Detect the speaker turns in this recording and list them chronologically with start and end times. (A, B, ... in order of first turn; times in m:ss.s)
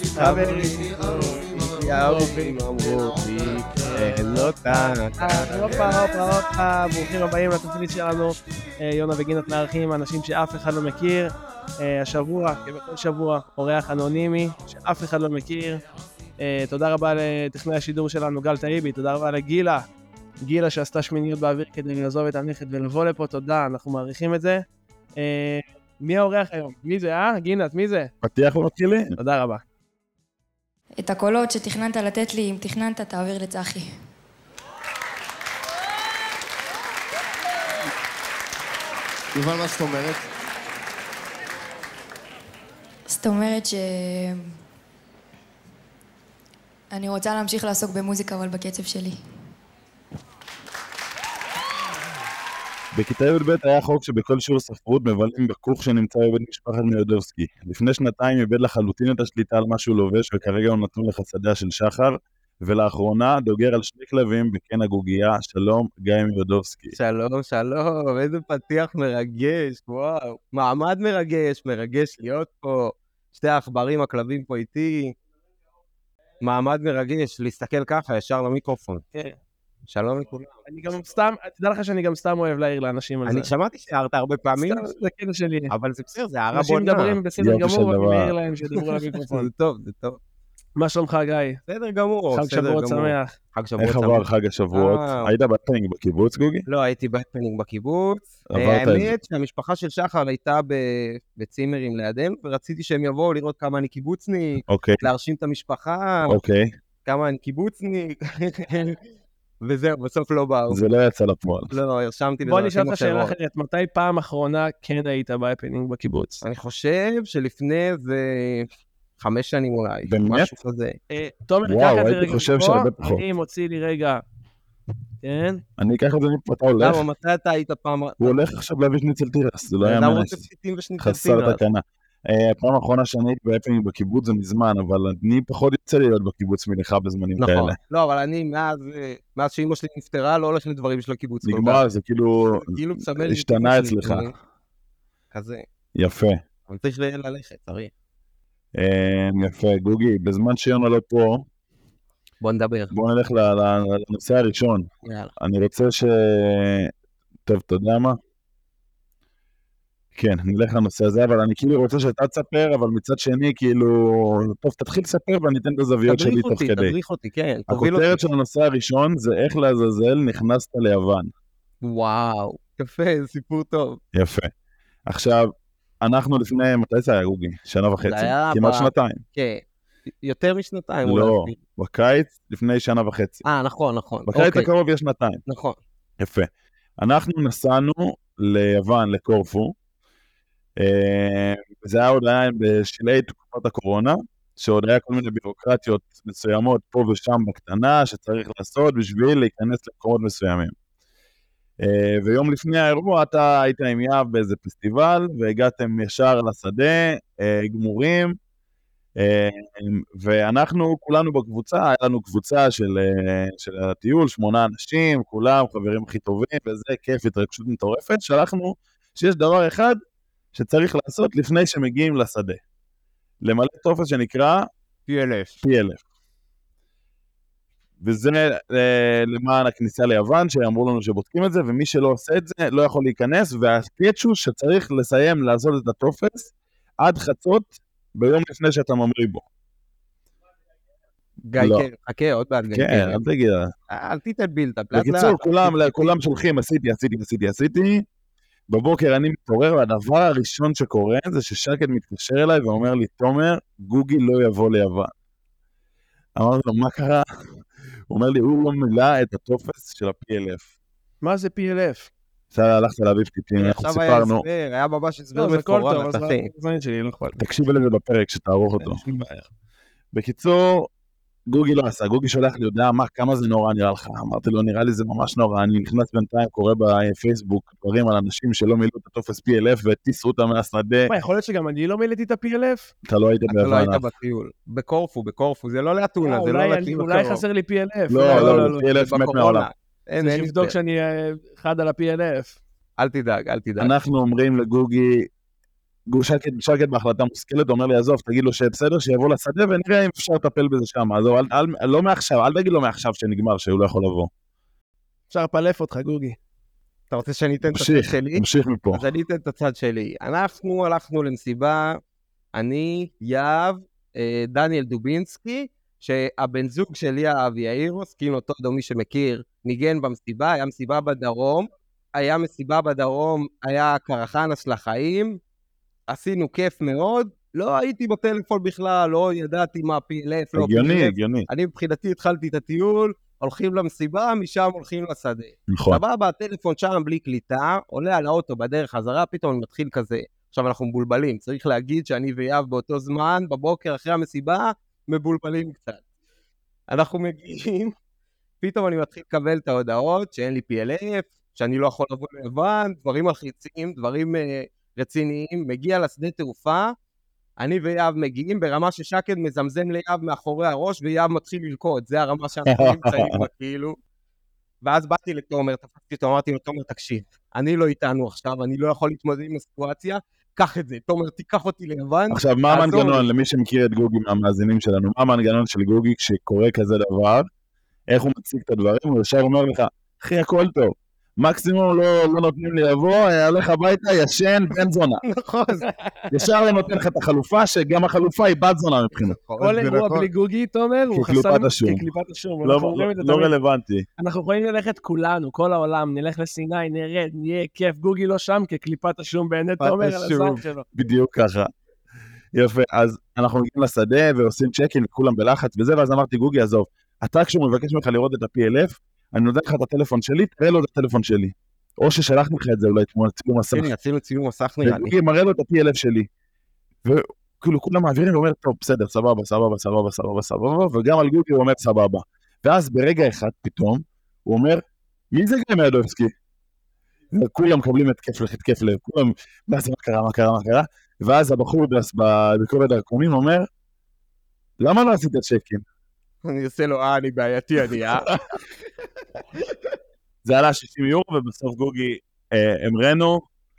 0:00.2-0:01.2 A
0:00.2-0:06.0 B
0:00.2-0:03.8 C
0:03.8-0:04.5 A
0:05.2-0:15.8 A
0:16.4-0:19.9 A
0:20.4-0:24.6 A
0:25.2-0:28.1 A
0:28.2-0:29.2 D
0:29.2-0:29.6 A
0:31.0-0:33.9 E
0:39.3-0:40.3 C
0:43.1-0:44.5 E
0:46.9-0:49.2 E
0:52.9-1:07.0 D
1:06.9-1:15.1 B
1:16.4-1:19.0 B
1:19.9-1:20.6 B
1:20.7-1:23.5 A
1:23.3-1:24.9 B
1:24.6-1:25.7 A
1:25.7-1:27.2 B
1:26.5-1:29.5 A
1:27.4-1:28.3 D
1:28.8-1:30.2 B
1:30.8-1:31.6 A
1:31.7-1:35.3 B
1:32.3-1:33.3 A
1:33.8-1:36.7 D
1:36.7-1:46.4 B
1:38.5-1:39.1 D
1:44.7-1:45.1 D
1:46.3-1:46.8 D
1:47.0-1:49.0 B
1:49.6-1:50.8 B
1:50.7-1:51.7 D
1:51.7-1:53.4 B
1:52.4-1:56.4 A
1:56.4-1:58.7 B
1:59.2-2:01.0 B
2:00.0-2:00.5 D
2:01.1-2:04.2 A
2:01.6-2:03.2 D
2:05.2-2:05.6 A
2:05.8-2:07.0 D
2:06.8-2:08.4 B
2:08.2-2:10.4 D
2:09.8-2:11.6 B
2:11.0-2:17.8 D
2:17.4-2:21.8 B
2:21.4-2:24.3 D
2:22.4-2:24.3 B
2:25.3-2:25.6 B
2:26.0-2:26.4 D
2:26.7-2:27.9 B
2:28.7-2:31.4 D
2:32.4-2:32.9 B
2:32.9-2:34.9 D
2:35.0-2:35.3 B
2:35.4-2:36.9 D
2:37.4-2:38.2 D
2:40.1-2:46.9 D
2:46.0-2:48.2 B
2:47.7-2:51.3 D
2:51.8-2:54.0 B
2:54.1-2:54.5 D
2:55.1-2:55.5 D
2:56.0-2:59.2 D
2:58.0-2:59.6 B
3:00.2-3:01.6 B
3:01.0-3:03.4 D
3:03.4-3:04.7 B
3:04.3-3:05.4 D
3:05.5-3:05.8 B
3:06.2-3:09.7 D
3:10.8-3:20.7 D
3:21.8-3:28.4 D
3:29.2-3:40.0 D
3:40.5-3:42.6 D
3:43.4-3:44.7 D
3:45.1-3:45.6 B
3:45.6-3:46.0 D
3:48.0-3:59.4 D
4:01.5-4:03.2 B
4:01.6-4:01.9 D
4:02.7-4:03.7 D
4:03.9-4:06.1 B
4:04.9-4:08.0 D
4:08.7-4:15.1 D
4:16.4-4:17.2 D
4:18.1-4:20.7 D
4:21.2-4:22.1 A
4:22.5-4:24.4 D
4:23.6-4:26.5 B
4:25.4-4:27.4 A
4:27.4-4:29.0 D
4:28.8-4:29.3 B
4:30.1-4:30.9 D
4:31.5-4:41.1 D
4:41.1-4:42.9 A
4:43.0-4:44.0 D
4:43.5-4:47.4 B
4:46.2-4:48.8 A
4:48.1-4:49.7 D
4:48.2-4:50.8 B
4:50.2-4:52.6 A
4:53.0-4:53.9 B
4:53.8-4:55.3 D
4:56.1-5:04.3 D
5:05.3-5:06.4 A
5:07.1-5:12.0 B
5:07.7-5:09.0 D
5:12.6-5:25.4 B
5:26.1-5:46.0 B
5:30.6-5:31.5 D
5:35.7-5:36.0 D
5:46.9-5:47.9 B
5:48.6-5:56.9 B
5:57.6-6:04.0 B
6:02.7-6:03.5 D
6:04.8-6:13.3 B
6:12.3-6:17.5 D
6:18.1-6:25.2 D
6:25.2-6:26.0 B
6:26.3-6:29.4 D
6:29.2-6:30.3 B
6:29.6-6:33.5 A
6:31.1-6:32.0 D
6:32.6-6:34.1 D
6:34.2-6:40.9 A
6:39.8-6:40.6 B
6:40.9-6:41.7 D
6:42.6-6:53.9 D
6:53.7-6:55.1 B
6:54.8-6:56.3 D
6:57.0-7:06.3 D
7:07.3-7:13.7 D
7:14.8-7:15.8 D
7:16.4-7:18.3 B
7:18.1-7:18.4 D
7:20.4-7:23.4 D